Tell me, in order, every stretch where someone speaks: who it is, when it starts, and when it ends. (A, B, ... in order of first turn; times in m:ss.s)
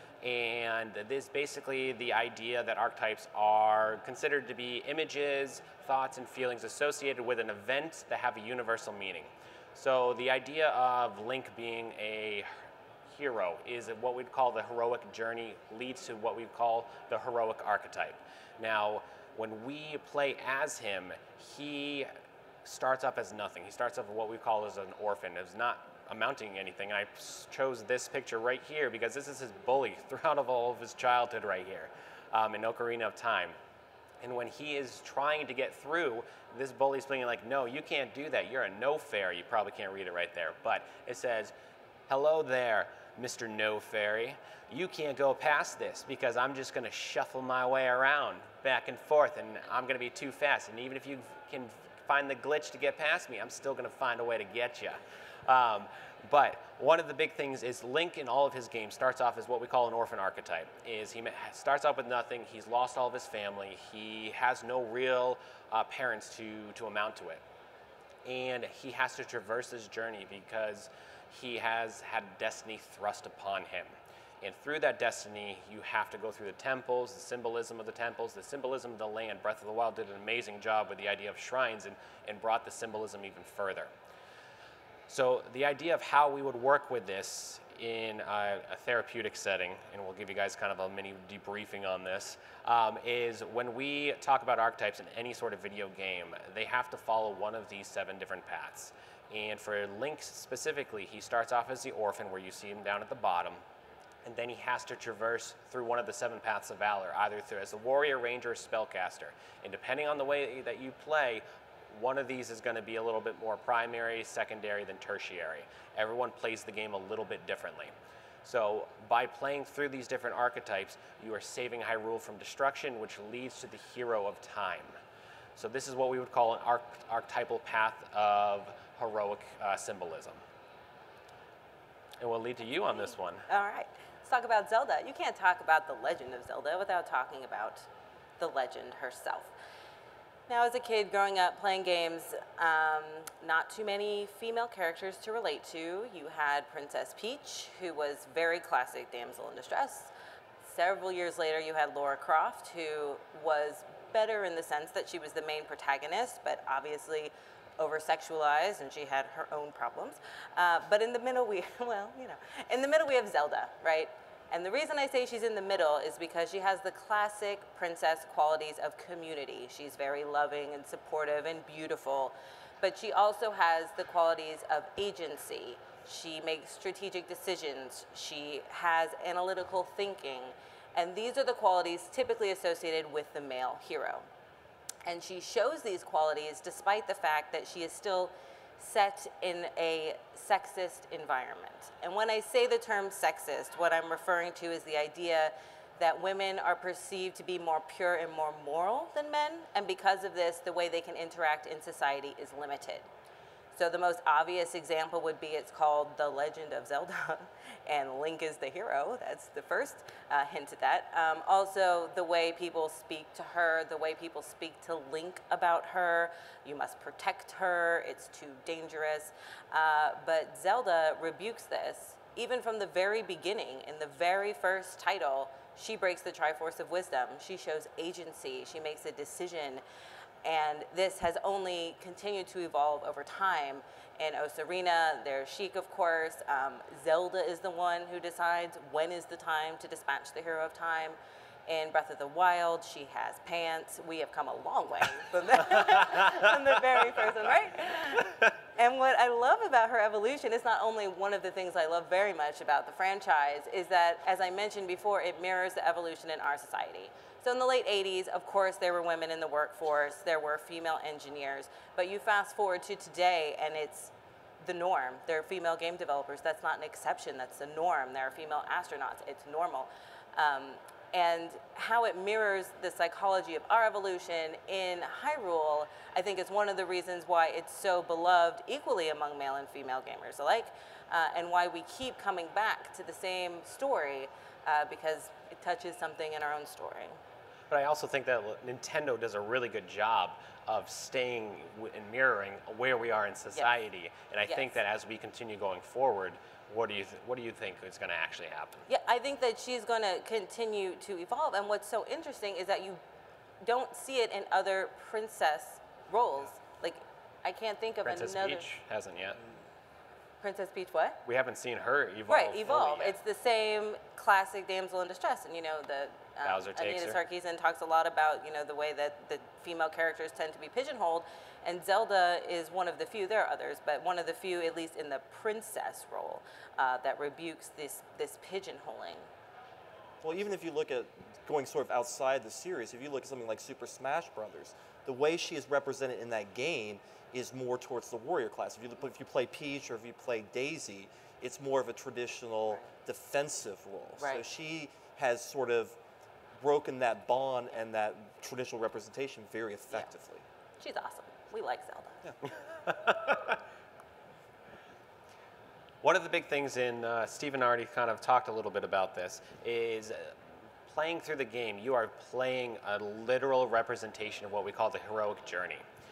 0:00.2-0:12.5 A
0:13.1-0:22.1 A
0:22.6-0:33.6 A
0:34.2-0:41.5 A
0:42.1-1:07.4 A
1:08.2-1:23.9 A
1:25.1-1:43.6 A
1:44.2-1:57.9 A
1:58.4-2:05.0 A
2:05.6-2:10.4 A
2:12.2-2:13.4 A
2:13.0-2:19.5 B
2:20.5-3:04.3 B
3:05.0-3:23.1 B
3:23.7-3:49.8 B
3:50.4-4:47.2 B
4:47.7-4:58.9 A
4:54.4-4:54.8 B
4:58.9-5:03.0 B
5:03.6-5:08.6 B
5:08.0-5:09.4 A
5:10.4-5:11.2 B
5:11.3-5:13.2 A
5:12.3-5:29.3 B
5:16.4-5:17.2 A
5:30.2-5:46.0 C
5:44.2-5:44.5 B
5:46.6-5:50.5 C
5:50.8-5:52.2 B
5:52.9-5:53.6 A
5:56.0-6:00.4 A
6:00.9-6:05.8 A